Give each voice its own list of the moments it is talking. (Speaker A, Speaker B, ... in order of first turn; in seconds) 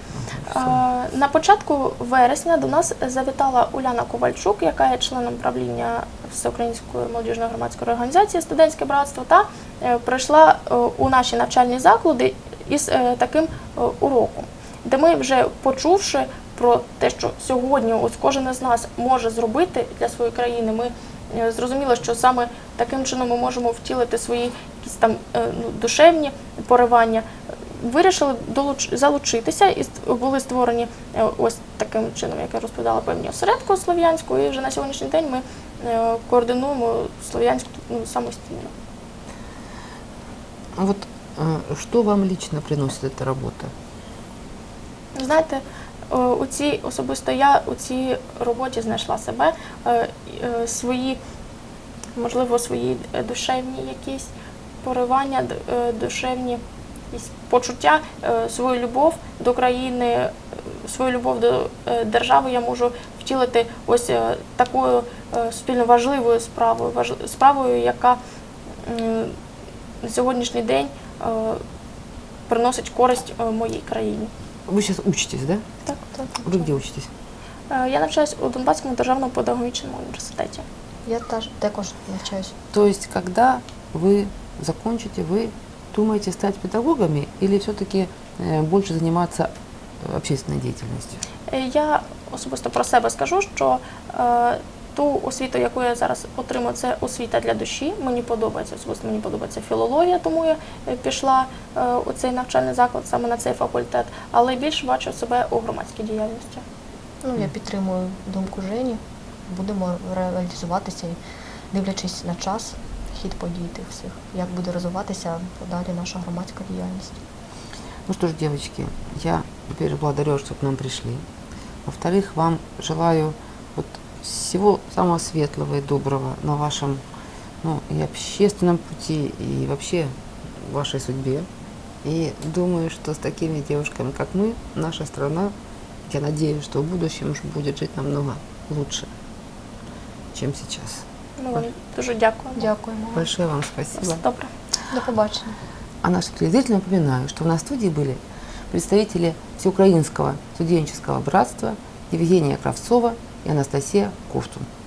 Speaker A: 0.4-0.8, 40.8-43.7, 74.7-75.6, 76.4-77.1, 82.7-91.2, 118.1-121.2, 121.8-127.0, 127.6-131.5, 132.0-135.5, 136.1-139.1, 140.3-141.6, 143.1-144.2, 146.0-148.2, 148.7-154.7
Speaker B: 0.5-38.7, 45.1-51.2, 52.1-54.3, 54.8-56.6, 57.1-68.2, 68.8-69.3, 70.0-71.6, 72.5-74.3, 77.7-80.6, 91.5-106.6, 141.4-142.7, 144.0-144.5
Speaker C: 81.0-82.5, 107.2-111.2, 111.7-117.2, 142.6-143.3, 144.9-145.6